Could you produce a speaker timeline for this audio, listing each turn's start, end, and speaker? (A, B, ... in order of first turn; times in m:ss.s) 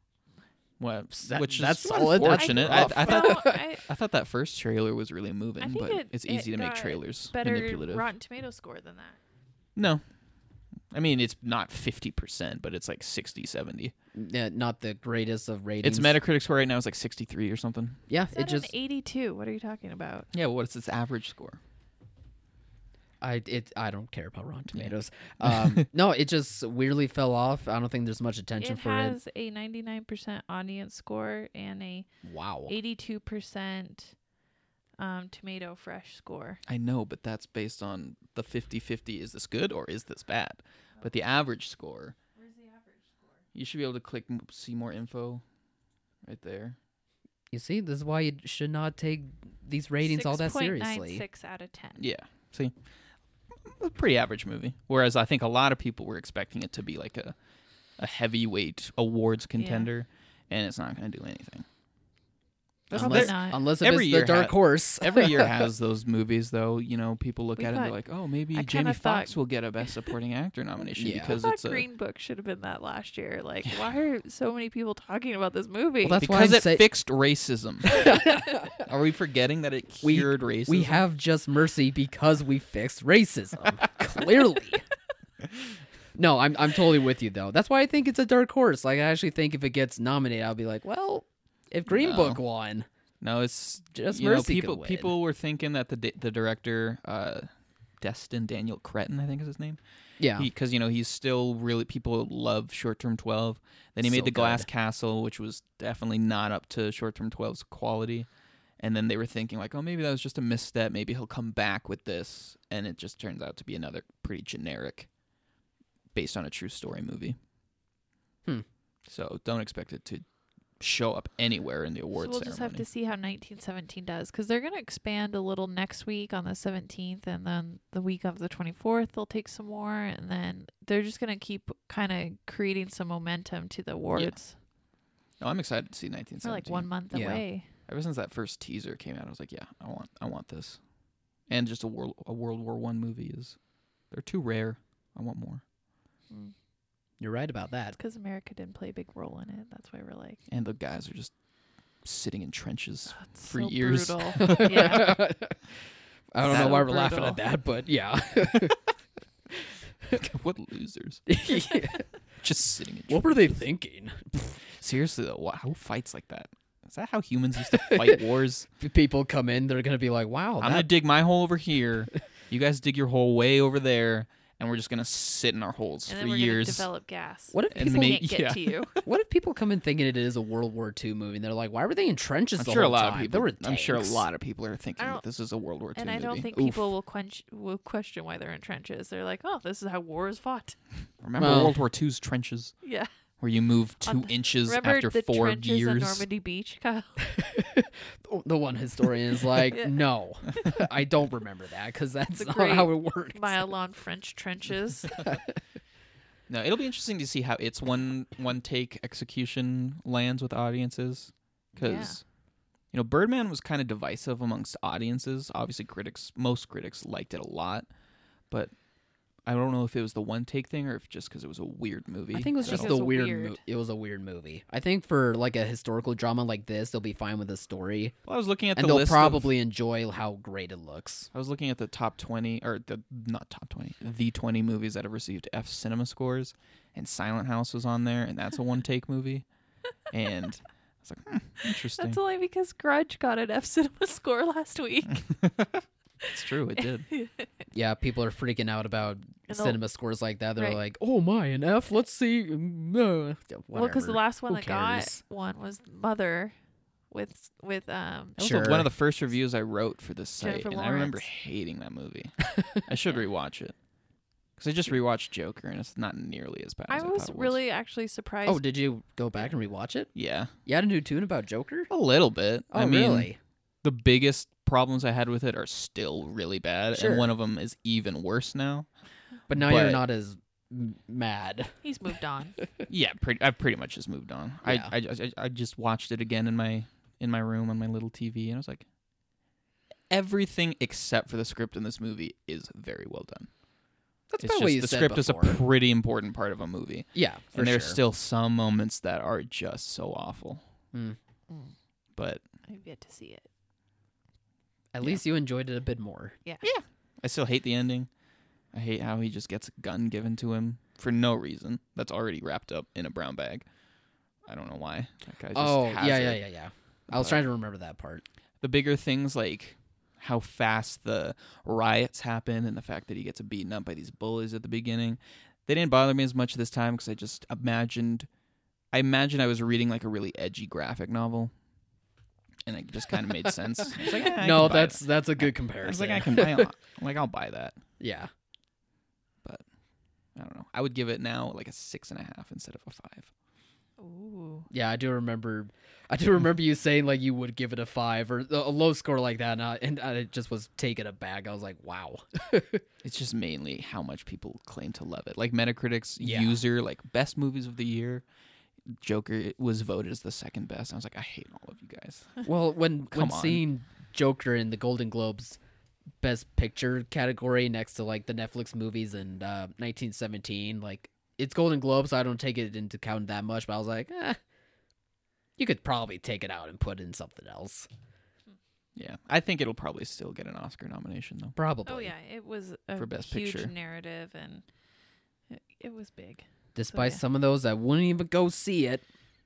0:00.8-0:08.1 A
0:01.2-0:03.6 B
0:02.2-0:03.8 C
0:05.6-0:09.2 C
0:09.8-0:10.0 A
0:10.9-0:13.9 A
0:14.1-0:16.1 B
0:15.8-0:18.0 A
0:18.1-0:18.7 B
0:18.3-0:20.3 C
0:20.3-0:21.6 A
0:23.2-0:29.2 B
0:24.7-0:25.8 A
0:28.6-0:32.1 C
0:32.2-0:32.7 B
0:32.7-0:34.1 C
0:35.0-0:36.6 C
0:36.7-0:42.2 A
0:42.4-0:43.4 C
0:43.5-0:45.4 A
0:46.2-0:46.8 A
0:47.5-0:51.2 B
0:50.0-0:52.0 C
0:52.0-0:52.7 A
0:53.7-0:57.3 A
0:58.0-1:01.6 A
0:59.6-0:59.9 C
1:02.9-1:11.8 A
1:02.9-1:05.7 B
1:02.9-1:03.6 C
1:07.6-1:08.0 C
1:08.5-1:09.3 C
1:11.0-1:11.4 B
1:11.3-1:16.2 C
1:16.0-1:16.9 B
1:16.2-1:18.1 A
1:17.8-1:18.9 B
1:18.8-1:21.0 A
1:20.0-1:24.8 B
1:26.1-1:32.9 B
1:31.9-1:32.4 A
1:33.2-1:37.5 A
1:33.9-1:35.1 B
1:38.0-1:39.8 A
1:40.2-1:40.5 B
1:40.4-1:48.3 A
1:44.0-1:44.7 B
1:48.8-1:55.1 A
1:56.1-1:57.4 A
1:59.0-2:00.2 A
2:00.8-2:02.8 A
2:02.2-2:14.5 C
2:14.1-2:14.4 A
2:15.4-2:16.9 A
2:16.4-2:17.7 C
2:17.1-2:17.4 B
2:17.9-2:20.8 A
2:21.5-2:23.6 A
2:24.1-2:25.6 A
2:27.2-2:28.0 B
2:28.0-2:30.4 C
2:30.5-2:31.3 A
2:32.0-2:35.1 A
2:33.1-2:35.2 C
2:34.4-2:35.6 B
2:36.3-2:38.8 B
2:36.4-2:37.4 A
2:36.5-2:37.3 C
2:40.1-2:41.3 A
2:41.3-2:42.1 B
2:42.4-2:43.5 A
2:43.1-2:44.5 B
2:44.8-2:48.7 A
2:47.7-2:48.2 B
2:48.8-2:50.9 B
2:50.6-2:56.9 A
2:56.1-2:58.9 C
2:57.5-2:58.2 B
2:57.7-2:59.0 A
2:59.0-3:04.3 B
3:02.6-3:06.9 A
3:05.0-3:05.2 C
3:05.9-3:10.8 C
3:11.2-3:12.8 A
3:11.4-3:11.8 B
3:12.8-3:13.1 C
3:13.4-3:16.2 A
3:14.0-3:17.2 C
3:17.2-3:23.6 B
3:19.7-3:20.7 C
3:22.3-3:25.2 C
3:25.2-3:25.5 B
3:26.5-3:32.2 A
3:31.8-3:32.2 C
3:32.9-3:37.8 A
3:39.4-3:42.9 A
3:42.3-3:48.1 B
3:42.6-3:43.6 C
3:48.2-3:49.5 A
3:48.8-3:51.3 B
3:51.3-3:59.4 A
4:00.1-4:02.2 A
4:01.6-4:05.2 C
4:05.1-4:07.1 A
4:07.1-4:07.5 C
4:07.7-4:15.2 B
4:09.5-4:09.8 C
4:10.6-4:10.8 C
4:13.7-4:16.5 C
4:17.1-4:18.4 C
4:18.4-4:18.9 B
4:18.4-4:23.7 A
4:20.4-4:21.2 C
4:22.6-4:22.8 B
4:24.6-4:27.6 A
4:26.9-4:28.6 C
4:28.4-4:30.1 B
4:30.1-4:30.5 A
4:30.6-4:31.9 B
4:31.9-4:33.3 A
4:32.7-4:33.4 B
4:33.8-4:38.9 A
4:36.9-4:37.3 B
4:39.5-4:40.0 A
4:39.5-4:41.7 B
4:41.8-4:42.6 C
4:42.9-4:48.8 A
4:44.6-4:44.9 B
4:50.1-4:53.5 A
4:54.3-4:55.6 B
4:54.4-5:00.6 A
4:57.1-4:58.0 B
5:00.9-5:01.2 B
5:02.2-5:02.4 A
5:02.7-5:03.5 C
5:04.9-5:06.4 B
5:06.6-5:08.1 A
5:08.7-5:13.6 A
5:14.5-5:16.4 A
5:15.5-5:18.2 B
5:17.1-5:17.4 A
5:18.6-5:28.3 A
5:28.9-5:31.5 A
5:32.6-5:37.8 A
5:33.8-5:36.7 B
5:38.0-5:38.3 B
5:40.4-5:43.3 A
5:44.0-5:44.7 C
5:44.7-5:52.8 B
5:53.0-5:58.2 A
5:56.2-5:56.6 B
5:59.0-6:02.4 A
6:02.4-6:05.6 B
6:03.1-6:03.6 A
6:06.2-6:14.4 B
6:15.6-6:17.9 B
6:19.0-6:21.5 A
6:21.6-6:22.1 B
6:21.8-6:24.6 C
6:23.0-6:23.7 A
6:25.5-6:27.2 C
6:26.7-6:29.0 B